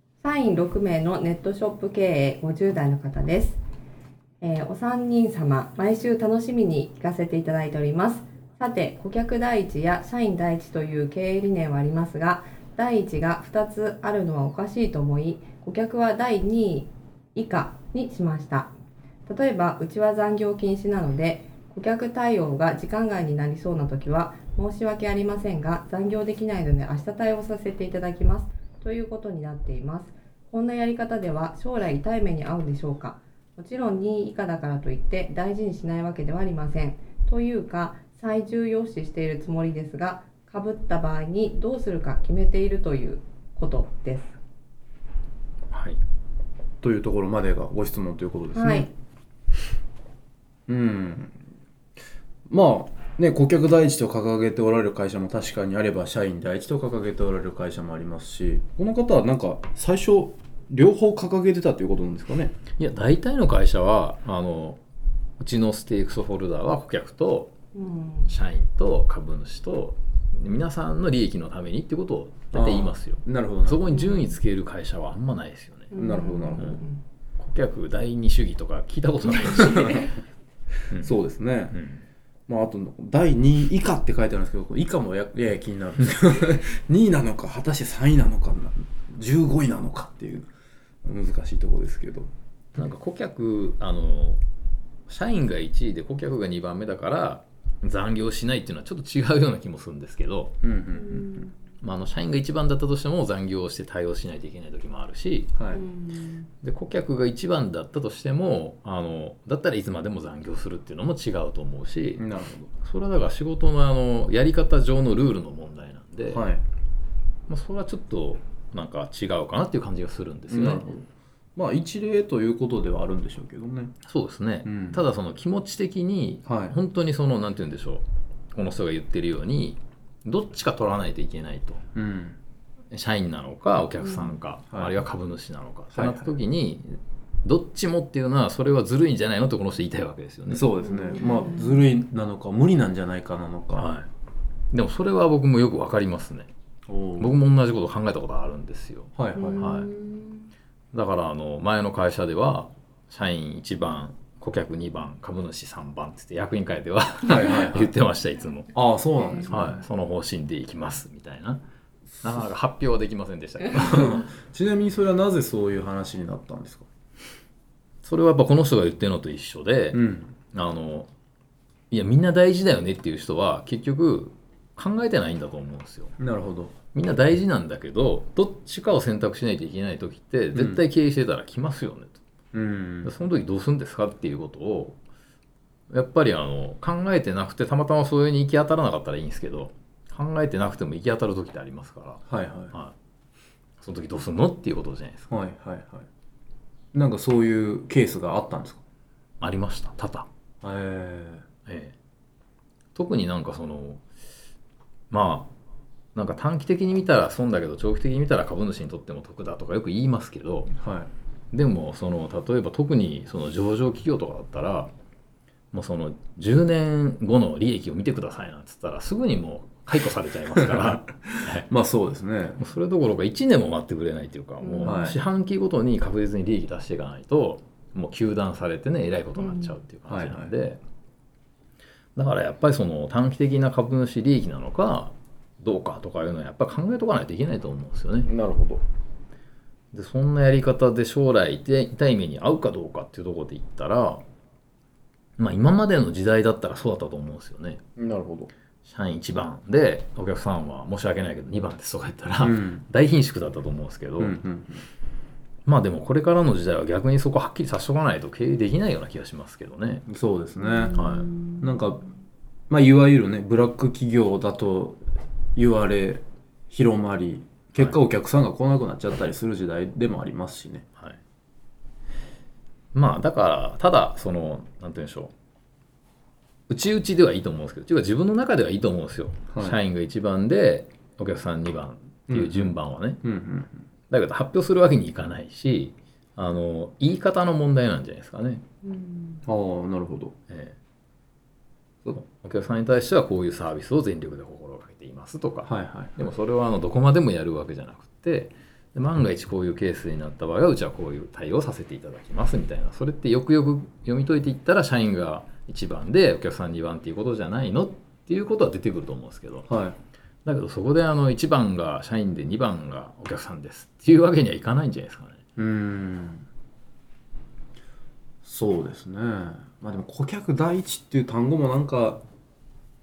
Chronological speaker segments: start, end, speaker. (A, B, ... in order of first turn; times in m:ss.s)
0:00.2-0:03.6 A
0:04.4-0:18.7 A
0:19.3-0:44.4 A
0:45.7-0:46.0 B
0:46.8-0:48.9 C
0:48.6-0:48.9 A
0:50.7-0:51.4 C
0:52.5-1:02.6 C
1:02.8-1:04.8 B
1:05.4-1:07.5 B
1:07.8-1:08.3 A
1:08.3-1:15.9 B
1:12.5-1:13.8 C
1:13.9-1:14.4 A
1:15.9-1:17.0 A
1:15.9-1:16.8 C
1:17.4-1:20.2 B
1:20.9-1:21.8 C
1:21.7-1:22.0 B
1:22.5-1:30.5 C
1:31.0-1:32.3 C
1:32.8-1:34.4 B
1:35.1-1:40.6 B
1:40.6-1:41.5 C
1:40.9-1:41.6 A
1:41.8-1:45.5 B
1:45.6-1:45.8 C
1:45.7-1:46.5 A
1:46.6-1:52.3 B
1:52.2-1:52.7 C
1:52.8-1:56.4 B
1:56.3-1:56.6 C
1:57.5-2:00.9 B
2:00.5-2:04.0 C
2:04.1-2:11.8 B
2:04.6-2:05.0 C
2:06.5-2:06.8 C
2:12.0-2:12.4 C
2:12.9-2:20.7 B
2:14.0-2:14.4 A
2:14.7-2:15.0 C
2:15.9-2:16.4 C
2:20.5-2:23.9 C
2:20.8-2:21.8 A
2:23.8-2:24.1 B
2:24.7-2:26.5 B
2:26.9-2:27.4 C
2:27.2-2:29.9 B
2:29.2-2:29.6 C
2:29.4-2:30.4 A
2:30.9-2:38.8 B
2:37.2-2:37.9 C
2:38.7-2:39.7 C
2:39.5-2:41.6 B
2:42.2-2:44.2 B
2:43.8-2:46.9 C
2:48.0-2:50.0 B
2:49.9-2:50.3 C
2:50.5-2:51.1 B
2:51.9-2:56.1 B
2:56.2-2:56.8 C
2:56.9-3:02.2 B
3:00.5-3:00.8 C
3:02.5-3:03.1 C
3:03.0-3:05.0 B
3:05.9-3:13.0 B
3:12.3-3:12.7 C
3:13.8-3:15.3 B
3:15.3-3:16.1 C
3:16.9-3:18.8 C
3:19.4-3:20.3 B
3:20.6-3:21.5 C
3:21.7-3:22.0 B
3:23.0-3:24.0 B
3:25.1-3:25.5 B
3:26.2-3:30.7 B
3:30.7-3:31.1 C
3:31.5-3:34.9 B
3:35.7-3:41.7 B
3:41.4-3:42.6 C
3:42.6-3:50.8 B
3:44.6-3:45.2 A
3:44.8-3:45.2 C
3:49.4-3:49.8 A
3:50.1-3:50.5 C
3:52.2-3:58.3 B
3:58.2-3:58.8 C
3:59.9-4:04.2 B
4:05.4-4:07.8 B
4:08.0-4:08.5 C
4:08.8-4:14.4 B
4:12.4-4:12.8 C
4:14.2-4:14.9 C
4:15.7-4:20.1 B
4:20.1-4:21.0 C
4:20.6-4:21.8 A
4:21.0-4:21.3 B
4:21.6-4:22.0 C
4:22.7-4:25.0 C
4:25.6-4:30.8 C
4:32.9-4:35.3 B
4:36.7-4:43.2 B
4:39.5-4:39.8 C
4:42.3-4:43.8 C
4:44.1-4:48.6 B
4:48.8-4:49.4 A
4:49.5-4:50.4 C
4:50.5-4:50.8 B
4:52.1-5:09.7 B
4:55.6-4:56.3 C
5:09.7-5:10.0 C
5:10.4-5:15.4 B
5:15.6-5:16.5 C
5:18.4-5:22.2 C